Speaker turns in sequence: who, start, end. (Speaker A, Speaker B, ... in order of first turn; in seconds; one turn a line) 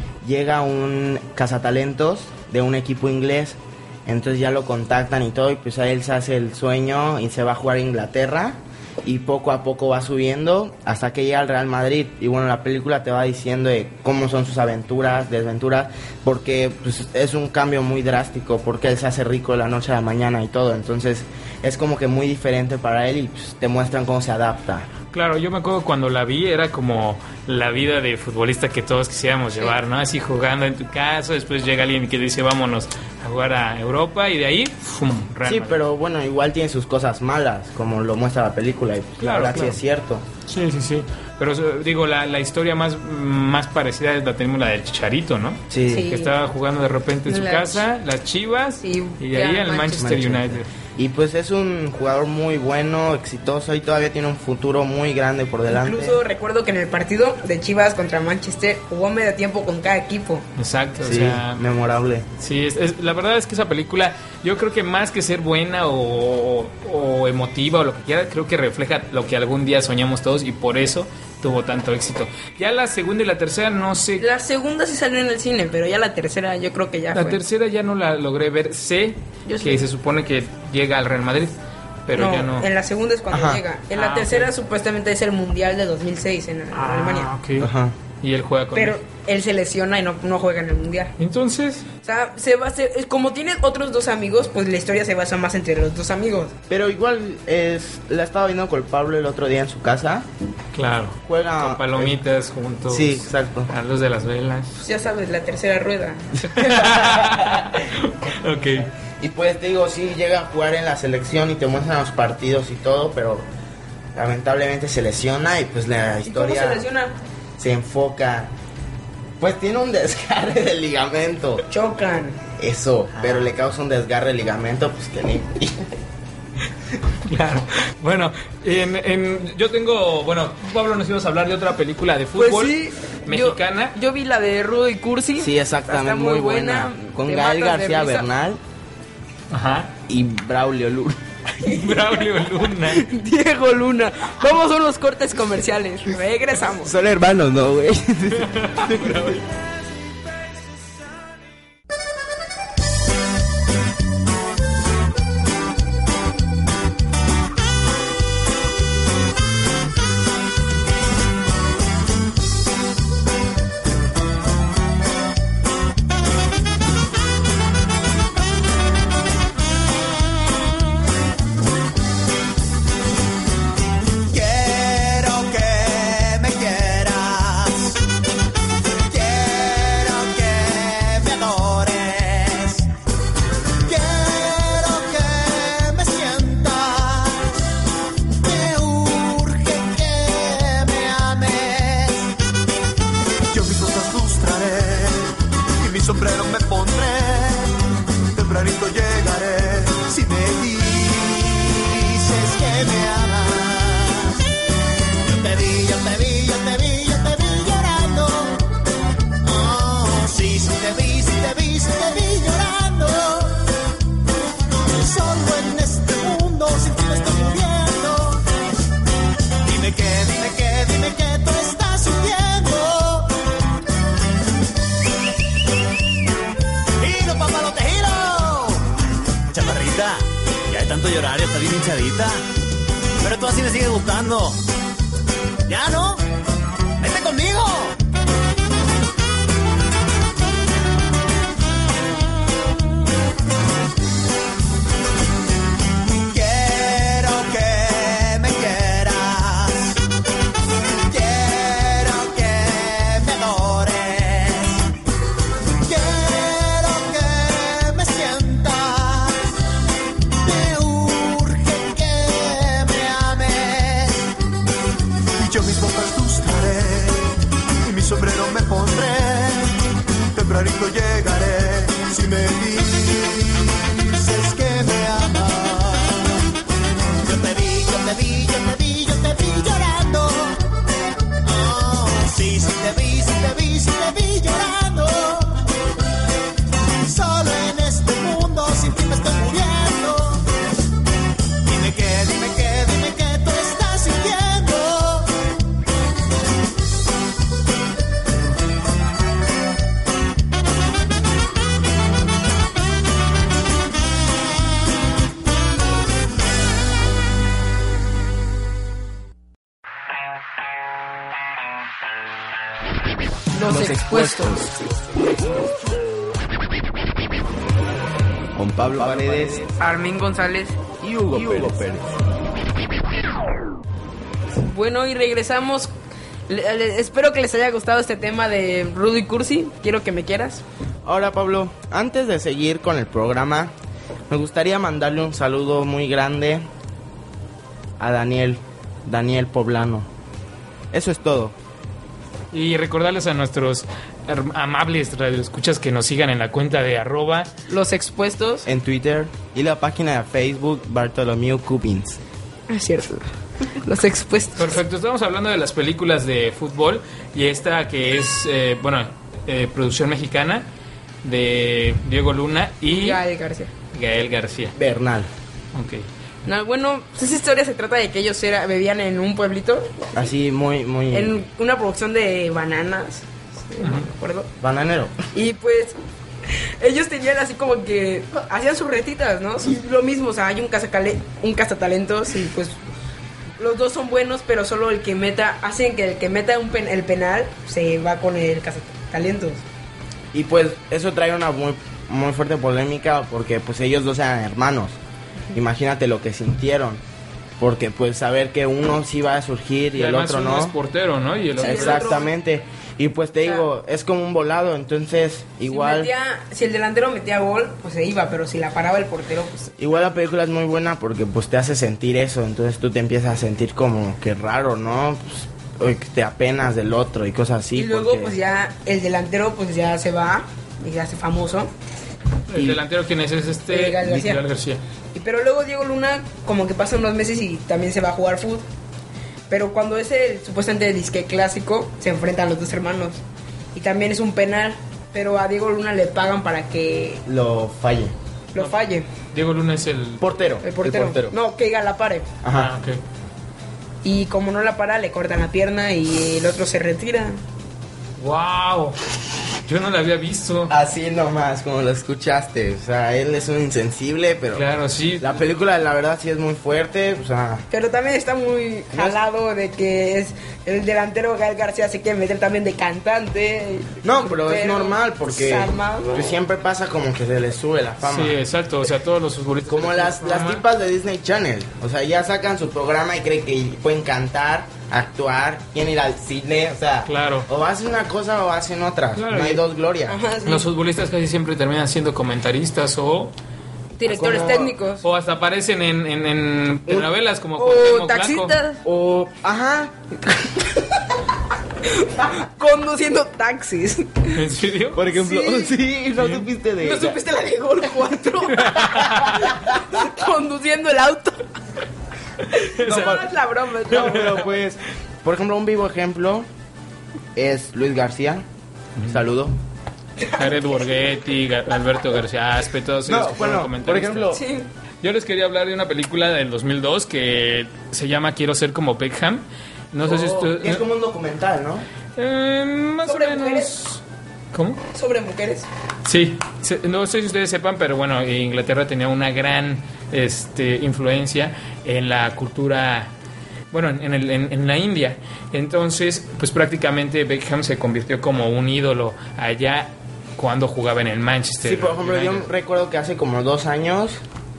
Speaker A: 0.2-24.9
Speaker B: 25.1-35.8
Speaker A: 35.5-40.2
Speaker B: 39.2-39.8
Speaker B: 40.5-50.7
Speaker A: 45.7-46.1
Speaker C: 45.9-46.3
Speaker C: 47.3-47.8
Speaker C: 48.8-50.1
Speaker A: 50.0-56.2
Speaker C: 55.7-60.5
Speaker B: 60.6-61.6
Speaker A: 61.0-62.3
Speaker B: 62.4-74.2
Speaker C: 74.2-77.4
Speaker B: 77.1-82.7
Speaker C: 79.5-79.8
Speaker C: 82.1-87.3
Speaker A: 83.3-83.6
Speaker B: 83.9-84.5
Speaker B: 86.7-89.0
Speaker A: 87.6-88.0
Speaker C: 88.8-91.1
Speaker B: 91.2-91.9
Speaker C: 92.0-96.5
Speaker A: 96.7-100.3
Speaker B: 100.7-104.8
Speaker A: 101.2-102.2
Speaker A: 102.9-103.7
Speaker C: 104.8-106.6
Speaker B: 106.5-108.9
Speaker A: 106.6-107.7
Speaker A: 109.0-113.5
Speaker A: 114.2-116.8
Speaker C: 116.3-117.1
Speaker A: 117.6-118.5
Speaker A: 119.4-121.7
Speaker C: 121.7-122.4
Speaker A: 122.6-125.9
Speaker B: 127.2-134.0
Speaker C: 132.4-138.3
Speaker A: 135.4-138.6
Speaker B: 139.5-139.9
Speaker A: 140.1-141.2
Speaker C: 141.6-142.2
Speaker B: 141.6-143.1
Speaker C: 142.9-146.9
Speaker A: 146.8-149.4
Speaker B: 148.3-149.5
Speaker D: 174.3-178.0
Speaker D: 179.1-182.9
Speaker D: 183.8-187.6
Speaker D: 188.4-192.3
Speaker D: 193.5-204.4
Speaker D: 205.2-208.7
Speaker D: 209.4-213.7
Speaker D: 214.8-218.5
Speaker D: 219.6-223.4
Speaker D: 227.0-228.9
Speaker D: 229.5-232.4
Speaker D: 233.2-234.6
Speaker D: 235.7-236.2
Speaker D: 237.0-238.0
Speaker D: 246.3-250.0
Speaker D: 251.0-254.9
Speaker D: 255.8-259.5
Speaker D: 260.4-264.3
Speaker D: 265.4-269.8
Speaker D: 270.3-276.3
Speaker D: 277.2-280.7
Speaker D: 281.4-285.6
Speaker D: 287.0-290.5
Speaker D: 291.6-295.4
Speaker C: 313.5-314.6
Speaker E: 313.7-314.7
Speaker E: 318.6-319.7
Speaker A: 318.8-319.6
Speaker C: 319.8-320.8
Speaker E: 321.0-322.2
Speaker C: 324.6-325.9
Speaker C: 326.5-330.6
Speaker A: 331.1-333.7
Speaker A: 334.3-336.7
Speaker A: 338.0-340.1
Speaker A: 340.9-341.6
Speaker B: 342.5-347.5
Speaker C: 347.7-348.7
Speaker A: 348.7-352.2
Speaker C: 352.7-354.8
Speaker B: 354.6-360.7
Speaker B: 361.2-363.2
Speaker C: 362.9-363.7
Speaker B: 363.9-364.8
Speaker A: 364.8-365.3
Speaker B: 365.7-366.1
Speaker C: 366.5-370.1
Speaker A: 370.1-371.4
Speaker C: 371.1-374.5
Speaker B: 373.8-374.1
Speaker A: 374.6-375.2
Speaker C: 375.3-376.0
Speaker C: 376.5-382.8
Speaker C: 383.6-389.6
Speaker A: 390.3-395.0
Speaker A: 395.5-397.0
Speaker A: 397.6-400.8
Speaker B: 399.9-402.2
Speaker C: 401.6-402.3
Speaker A: 401.6-406.1
Speaker C: 405.7-409.7
Speaker A: 409.8-418.4
Speaker C: 417.7-421.7
Speaker B: 422.5-424.8
Speaker A: 422.5-422.8
Speaker C: 423.7-424.4
Speaker C: 425.1-428.7
Speaker C: 429.5-433.2
Speaker C: 433.8-437.2
Speaker A: 437.3-438.1
Speaker C: 438.5-439.1
Speaker B: 439.3-440.3
Speaker A: 440.2-441.4
Speaker C: 440.6-442.3
Speaker A: 442.4-442.7
Speaker B: 442.5-443.0
Speaker C: 444.0-447.4
Speaker B: 448.2-449.0
Speaker B: 449.6-450.8
Speaker A: 450.7-454.6
Speaker B: 454.5-455.4
Speaker A: 455.2-457.6
Speaker C: 457.7-466.4
Speaker A: 464.0-468.4
Speaker B: 468.0-470.6
Speaker A: 469.7-480.2
Speaker B: 477.1-477.5
Speaker B: 479.1-479.6
Speaker C: 480.1-480.7
Speaker B: 480.4-483.3
Speaker C: 484.0-485.0
Speaker A: 484.1-484.7
Speaker B: 484.2-488.6
Speaker C: 487.6-488.8
Speaker A: 488.9-489.9
Speaker C: 491.9-494.4
Speaker B: 494.3-495.1
Speaker A: 494.9-497.2
Speaker C: 495.1-495.7
Speaker B: 496.2-496.5
Speaker C: 496.8-501.5
Speaker B: 498.6-499.4
Speaker C: 502.4-504.4
Speaker B: 502.6-503.3
Speaker A: 502.9-503.2
Speaker A: 503.9-506.5
Speaker B: 503.9-504.4
Speaker A: 507.4-508.4
Speaker A: 509.1-509.6
Speaker B: 510.3-514.4
Speaker A: 513.1-514.4
Speaker C: 514.3-514.7
Speaker B: 515.0-520.8
Speaker A: 520.0-521.9
Speaker B: 522.2-524.0
Speaker C: 523.0-523.7
Speaker B: 524.5-524.8
Speaker C: 524.9-525.7
Speaker B: 526.0-533.1
Speaker B: 533.7-542.5
Speaker A: 541.6-544.2